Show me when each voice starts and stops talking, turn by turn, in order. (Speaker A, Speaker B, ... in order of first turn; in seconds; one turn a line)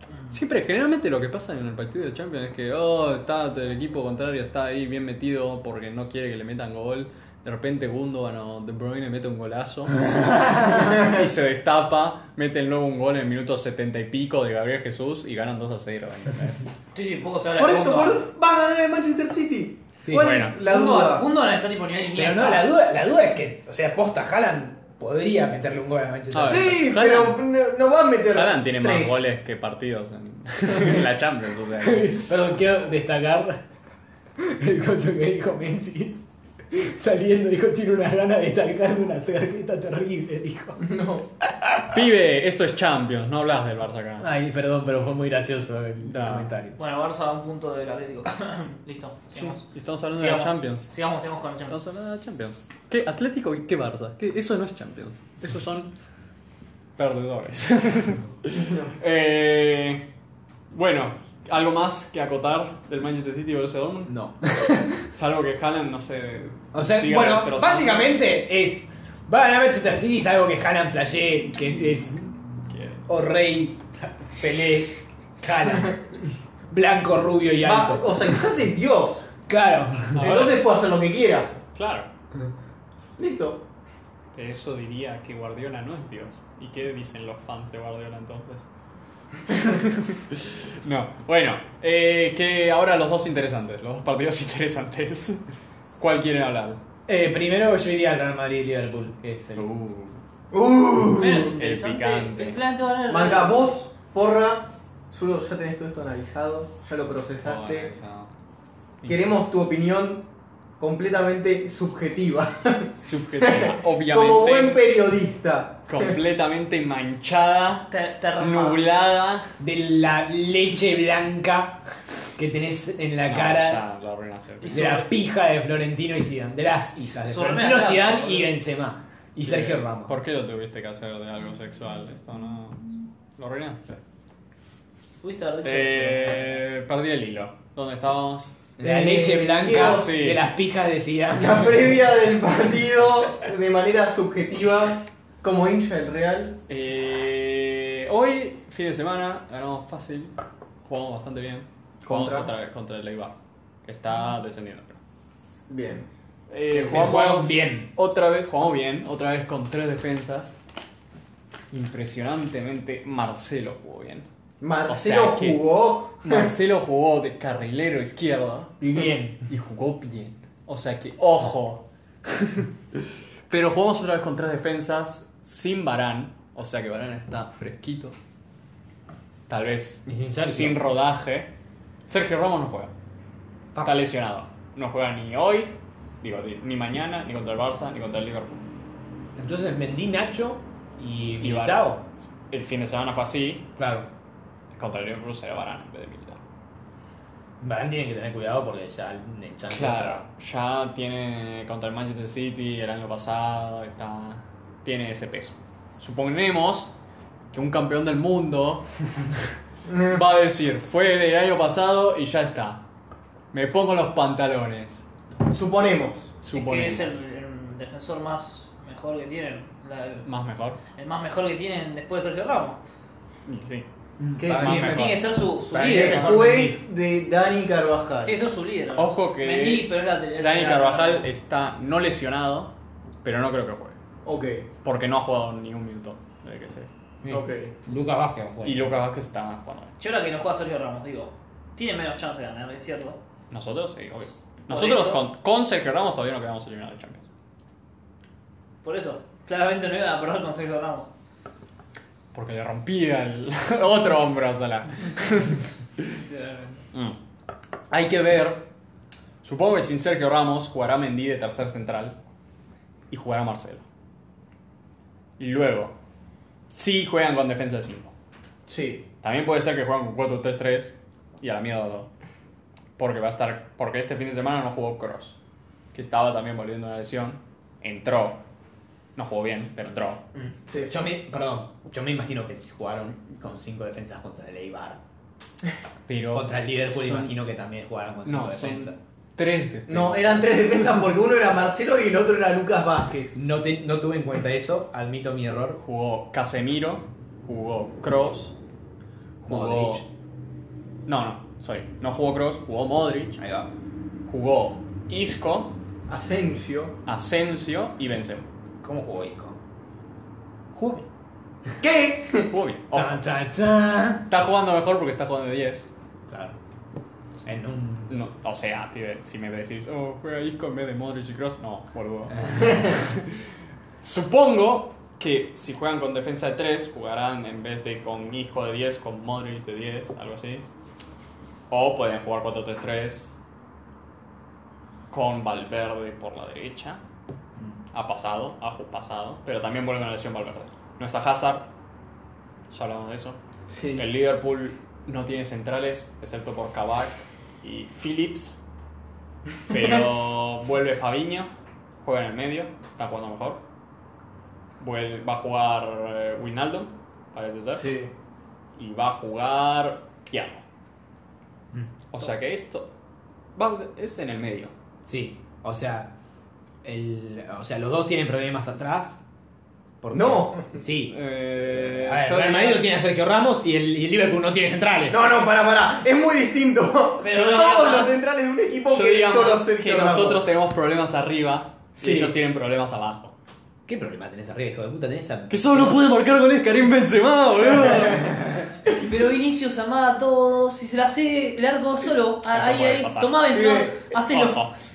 Speaker A: 0.3-16.7
Speaker B: 10.3-10.8
Speaker C: 16.9-18.2
Speaker D: 17.6-21.3
Speaker B: 20.0-20.3
Speaker A: 20.1-20.6
Speaker C: 20.6-22.7
Speaker B: 22.1-26.8
Speaker A: 26.3-27.4
Speaker D: 26.4-29.2
Speaker A: 28.3-32.3
Speaker B: 31.8-33.6
Speaker B: 34.4-40.8
Speaker D: 40.8-41.2
Speaker B: 41.5-42.0
Speaker A: 41.9-44.3
Speaker B: 44.2-46.8
Speaker A: 46.0-46.5
Speaker C: 46.8-51.8
Speaker A: 49.3-50.9
Speaker A: 51.7-55.9
Speaker A: 57.0-60.0
Speaker A: 60.7-64.1
Speaker B: 64.1-65.0
Speaker A: 64.9-68.1
Speaker B: 66.7-72.3
Speaker A: 72.7-73.1
Speaker B: 73.1-76.0
Speaker B: 76.7-78.3
Speaker D: 77.6-79.3
Speaker B: 79.5-80.2
Speaker A: 80.1-80.7
Speaker D: 80.2-81.6
Speaker A: 81.7-82.1
Speaker D: 83.2-83.6
Speaker A: 84.3-88.7
Speaker A: 89.5-95.4
Speaker A: 96.0-96.8
Speaker B: 97.1-99.7
Speaker A: 99.5-100.2
Speaker D: 100.5-101.5
Speaker C: 101.2-103.7
Speaker A: 101.5-102.6
Speaker D: 103.1-107.9
Speaker A: 107.4-108.3
Speaker A: 109.0-109.3
Speaker D: 109.0-110.2
Speaker D: 110.8-116.2
Speaker A: 113.0-114.8
Speaker A: 115.9-119.5
Speaker C: 117.9-118.8
Speaker B: 119.6-121.8
Speaker B: 122.3-123.8
Speaker A: 123.3-125.0
Speaker C: 124.6-125.0
Speaker B: 124.7-130.1
Speaker C: 127.1-128.5
Speaker A: 129.4-134.0
Speaker C: 135.2-136.6
Speaker A: 135.6-138.6
Speaker B: 138.8-141.8
Speaker D: 138.8-140.2
Speaker A: 139.7-140.4
Speaker D: 141.3-146.6
Speaker A: 146.7-150.3
Speaker A: 150.8-155.0
Speaker D: 152.0-152.5
Speaker D: 155.7-156.1
Speaker A: 156.5-160.6
Speaker B: 156.8-157.9
Speaker A: 161.7-164.2
Speaker D: 164.6-166.5
Speaker A: 164.9-165.6
Speaker A: 166.2-168.8
Speaker B: 168.8-169.4
Speaker A: 169.5-178.1
Speaker A: 179.5-181.5
Speaker B: 180.1-180.8
Speaker A: 182.1-182.9
Speaker A: 183.8-188.7
Speaker B: 189.4-192.0
Speaker A: 191.4-193.7
Speaker B: 193.8-194.1
Speaker A: 194.7-196.4
Speaker B: 197.6-200.2
Speaker A: 199.7-206.9
Speaker A: 207.5-212.8
Speaker D: 209.8-210.2
Speaker A: 213.5-215.0
Speaker D: 215.5-216.3
Speaker A: 216.4-217.2
Speaker C: 216.5-220.3
Speaker A: 220.2-220.8
Speaker C: 220.9-222.8
Speaker A: 223.4-223.8
Speaker B: 224.2-225.0
Speaker D: 224.4-225.1
Speaker A: 224.4-225.3
Speaker C: 224.6-226.6
Speaker D: 225.7-228.3
Speaker B: 225.7-226.7
Speaker C: 228.2-231.2
Speaker A: 228.9-232.7
Speaker A: 233.2-233.9
Speaker D: 234.2-234.7
Speaker A: 234.8-236.9
Speaker B: 237.2-238.9
Speaker D: 237.3-237.7
Speaker A: 238.6-239.9
Speaker C: 240.0-243.2
Speaker A: 243.5-247.2
Speaker C: 244.7-245.2
Speaker C: 248.8-251.1
Speaker A: 252.3-256.2
Speaker C: 256.2-256.8
Speaker A: 257.9-258.6
Speaker A: 259.4-262.1
Speaker A: 263.1-263.8
Speaker A: 265.4-265.9
Speaker A: 266.7-268.1
Speaker D: 268.7-269.0
Speaker A: 269.2-272.1
Speaker A: 273.0-275.4
Speaker A: 275.9-278.4
Speaker A: 279.1-280.2
Speaker B: 280.4-285.0
Speaker D: 280.7-280.9
Speaker A: 286.1-287.3
Speaker B: 286.3-288.9
Speaker A: 288.2-290.9
Speaker D: 289.9-293.4
Speaker B: 293.3-295.8
Speaker A: 295.8-298.5
Speaker A: 299.4-300.0
Speaker B: 299.5-300.1
Speaker A: 301.1-303.4
Speaker B: 303.4-303.7
Speaker A: 304.2-305.7
Speaker D: 306.1-306.9
Speaker A: 307.1-308.4
Speaker B: 308.8-309.6
Speaker A: 310.7-311.0
Speaker D: 311.8-312.5
Speaker A: 312.4-313.2
Speaker B: 312.9-314.2
Speaker A: 314.3-315.9
Speaker B: 316.3-316.6
Speaker B: 317.4-318.1
Speaker A: 318.1-323.4
Speaker B: 322.3-322.9
Speaker A: 324.0-330.6
Speaker A: 331.7-333.4
Speaker A: 335.1-337.0
Speaker A: 337.9-341.7
Speaker A: 342.7-343.4
Speaker D: 343.7-344.0
Speaker A: 343.9-348.6
Speaker A: 349.7-351.5
Speaker A: 352.0-353.6
Speaker A: 354.8-357.9
Speaker D: 357.7-358.1
Speaker A: 358.8-360.6
Speaker A: 362.1-362.9
Speaker A: 363.6-364.7
Speaker B: 365.1-366.1
Speaker B: 366.8-369.2
Speaker B: 370.0-375.2
Speaker D: 370.1-370.7
Speaker A: 371.1-372.9
Speaker D: 375.1-380.5
Speaker C: 377.2-378.2
Speaker A: 377.3-377.9
Speaker A: 378.9-383.3
Speaker D: 382.0-382.3
Speaker B: 383.9-386.0
Speaker A: 385.5-388.4
Speaker B: 388.1-388.6
Speaker C: 388.9-394.6
Speaker A: 392.5-393.4
Speaker D: 393.5-394.1
Speaker A: 394.3-394.7